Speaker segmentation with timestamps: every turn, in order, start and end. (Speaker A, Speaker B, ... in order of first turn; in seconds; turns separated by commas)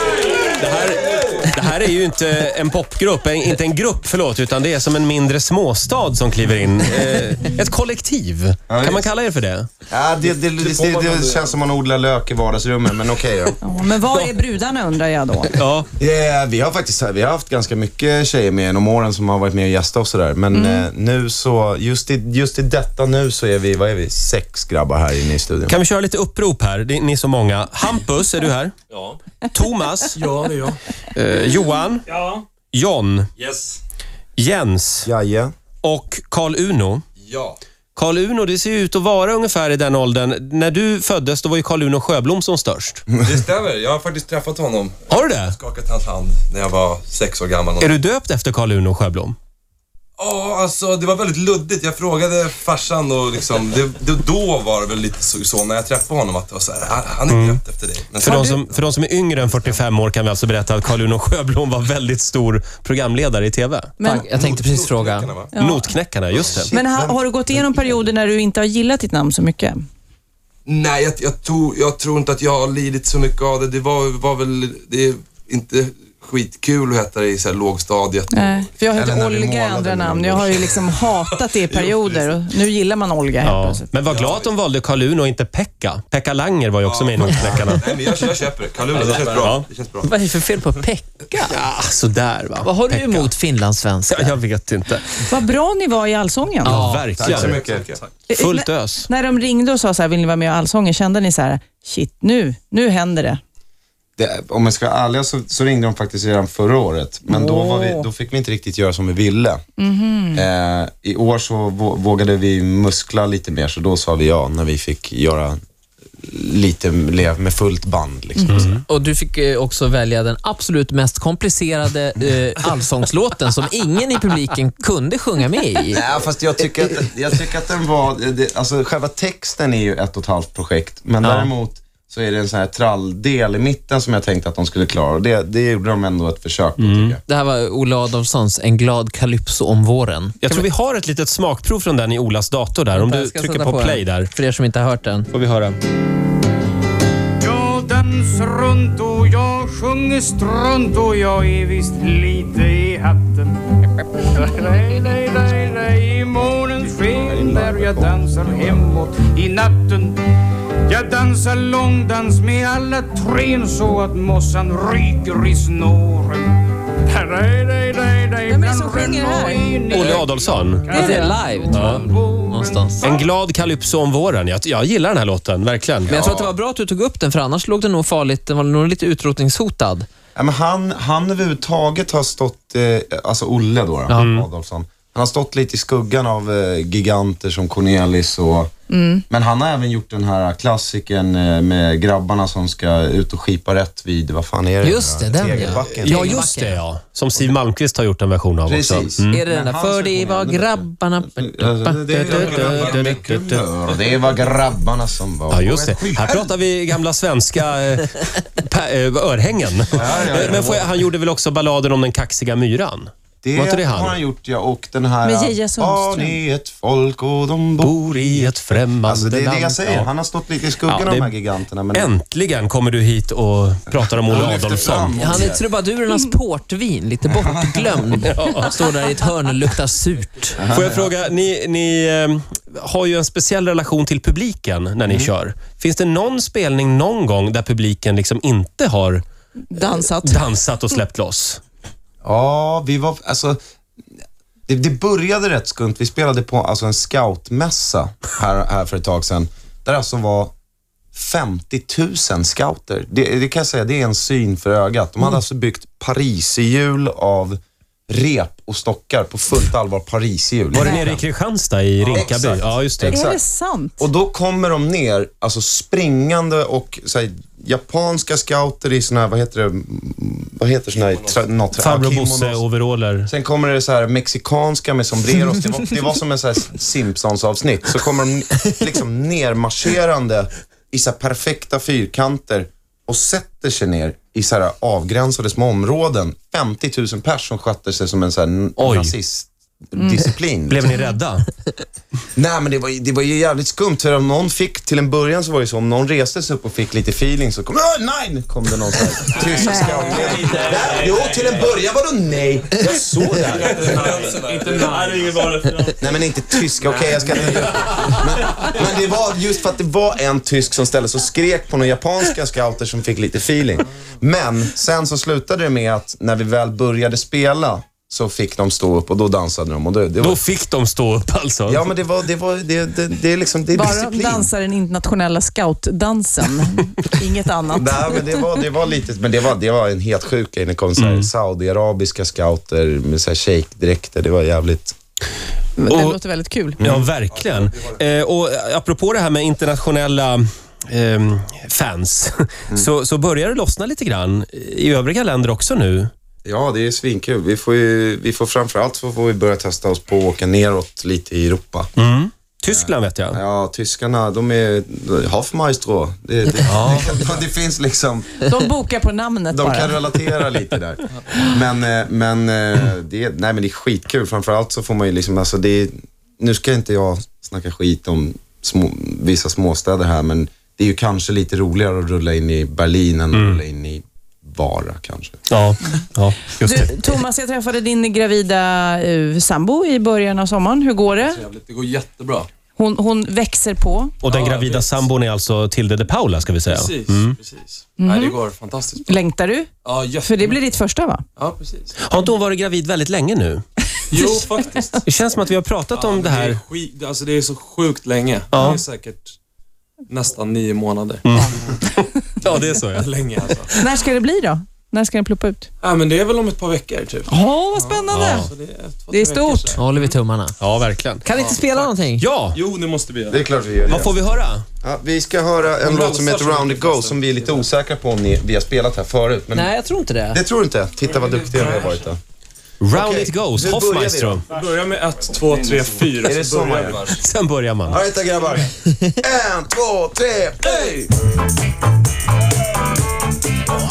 Speaker A: 0.4-9.7, Speaker B: 8.7-9.1, Speaker B: 9.9-13.6, Speaker C: 10.6-11.5, Speaker D: 13.6-15.6, Speaker A: 15.5-15.9, Speaker B: 16.0-25.8, Speaker D: 20.5-20.9, Speaker A: 25.7-28.8, Speaker A: 29.5-30.2, Speaker E: 30.1-30.8, Speaker A: 31.1-32.0, Speaker E: 32.1-32.4, Speaker A: 32.7-33.3, Speaker E: 33.4-33.7, Speaker A: 34.4-35.1, Speaker B: 35.0-35.5, Speaker A: 35.8-37.0, Speaker C: 37.2-37.6, Speaker A: 38.0-43.0, Speaker C: 43.2-48.0, Speaker A: 45.1-45.5, Speaker A: 47.8-49.4, Speaker C: 50.2-58.9, Speaker A: 57.3-57.6, Speaker A: 58.2-63.9, Speaker D: 58.3-58.5, Speaker C: 59.4-59.8, Speaker D: 64.0-64.3, Speaker F: 64.0-65.3, Speaker C: 64.1-65.5, Speaker D: 65.5-65.9, Speaker A: 65.6-66.7, Speaker B: 66.3-67.9, Speaker D: 66.7-69.8, Speaker C: 70.7-78.7, Speaker D: 78.3-83.9, Speaker B: 78.9-80.7, Speaker C: 80.7-82.4, Speaker A: 83.4-87.8, Speaker C: 84.0-84.5, Speaker C: 86.8-90.1, Speaker A: 89.1-89.7, Speaker F: 90.0-91.5, Speaker A: 91.4-93.3, Speaker F: 92.6-94.4, Speaker A: 94.1-95.3, Speaker D: 95.2-96.8, Speaker F: 96.6-97.3, Speaker A: 96.6-97.6, Speaker B: 97.2-97.9, Speaker C: 97.2-98.0, Speaker D: 98.3-103.4, Speaker A: 98.4-99.1, Speaker B: 104.2-109.6, Speaker D: 107.3-108.0, Speaker D: 109.8-110.4, Speaker B: 110.3-115.6, Speaker B: 116.2-118.8, Speaker A: 118.5-118.8, Speaker F: 118.8-126.0, Speaker B: 125.9-137.2, Speaker F: 131.2-131.5, Speaker A: 136.8-137.2, Speaker F: 137.3-140.7, Speaker A: 140.4-144.3, Speaker F: 142.9-145.3, Speaker A: 145.3-145.8, Speaker G: 147.4-160.2, Speaker B: 156.8-158.8, Speaker G: 160.9-173.3, Speaker D: 168.5-169.9, Speaker A: 169.9-171.1, Speaker F: 170.9-173.0, Speaker D: 170.9-171.7, Speaker A: 171.7-172.1, Speaker A: 173.0-176.4, Speaker F: 176.1-180.1, Speaker B: 180.3-188.7, Speaker A: 184.2-184.4, Speaker D: 188.9-189.2, Speaker B: 189.3-196.5, Speaker F: 194.8-196.8, Speaker A: 195.9-199.4, Speaker B: 198.7-206.5, Speaker F: 199.3-203.5, Speaker A: 202.3-203.4, Speaker C: 202.4-203.1, Speaker A: 205.5-214.2, Speaker B: 209.9-210.9, Speaker B: 213.4-222.1, Speaker D: 215.2-216.4, Speaker A: 217.8-220.1, Speaker A: 220.9-221.3, Speaker A: 221.9-225.2, Speaker B: 223.9-225.7, Speaker F: 224.4-230.6, Speaker B: 227.4-228.1, Speaker A: 228.2-228.8, Speaker B: 230.6-231.1, Speaker A: 230.6-239.2, Speaker B: 235.1-235.3, Speaker D: 239.7-240.5, Speaker A: 240.1-241.6, Speaker B: 242.2-243.6, Speaker B: 244.7-250.5, Speaker B: 251.1-257.6, Speaker B: 258.1-261.2, Speaker A: 260.7-263.4, Speaker D: 260.8-261.1, Speaker C: 262.0-262.3, Speaker B: 262.1-263.3, Speaker D: 263.1-264.1, Speaker B: 264.0-272.6, Speaker C: 271.0-271.4, Speaker A: 271.8-273.3, Speaker B: 273.3-291.0, Speaker A: 288.8-289.1, Speaker D: 289.9-290.2, Speaker A: 290.7-291.5, Speaker B: 292.4-304.1, Speaker D: 299.4-300.4, Speaker A: 300.4-300.8, Speaker E: 300.4-301.5, Speaker E: 303.4-305.9, Speaker C: 303.4-304.9, Speaker B: 306.0-320.4, Speaker A: 320.2-321.8, Speaker B: 321.7-324.5, Speaker D: 323.7-328.6, Speaker B: 327.7-334.9, Speaker A: 331.0-331.3, Speaker D: 335.8-336.8, Speaker A: 335.9-336.2, Speaker A: 336.8-346.1, Speaker B: 336.8-337.1, Speaker C: 337.3-338.0, Speaker B: 346.4-351.9, Speaker A: 352.0-353.4, Speaker B: 352.7-358.4, Speaker A: 356.6-357.1, Speaker D: 358.4-360.0, Speaker B: 359.5-375.4, Speaker A: 373.3-373.6, Speaker A: 375.5-377.0, Speaker D: 376.6-381.4, Speaker E: 381.1-382.2, Speaker C: 381.6-382.5, Speaker D: 382.8-384.1, Speaker E: 384.2-385.1, Speaker A: 384.2-387.4, Speaker E: 386.7-389.1, Speaker D: 388.0-388.4, Speaker D: 389.1-389.7, Speaker E: 389.8-390.6, Speaker D: 390.2-391.2, Speaker E: 391.4-391.9, Speaker A: 392.1-393.6, Speaker E: 394.1-395.0, Speaker A: 395.1-396.6, Speaker E: 395.9-399.4, Speaker A: 398.5-398.8, Speaker D: 398.6-398.8, Speaker E: 400.1-401.2, Speaker A: 401.2-403.1, Speaker E: 402.4-403.9, Speaker D: 403.7-405.7, Speaker E: 405.8-410.2, Speaker D: 407.3-408.5, Speaker A: 408.1-408.5, Speaker D: 409.1-409.8, Speaker F: 409.8-410.6, Speaker A: 410.6-411.2, Speaker F: 411.2-412.2, Speaker E: 411.3-411.9, Speaker A: 412.2-412.6, Speaker E: 412.5-413.4, Speaker B: 413.3-414.1, Speaker A: 413.9-414.6, Speaker B: 414.8-419.7, Speaker E: 415.8-417.6, Speaker F: 419.5-420.4, Speaker B: 420.3-422.2, Speaker E: 421.4-422.0, Speaker A: 422.8-424.4, Speaker B: 422.9-424.4, Speaker E: 424.5-427.1, Speaker B: 426.2-427.1, Speaker A: 427.2-428.0, Speaker B: 427.9-431.1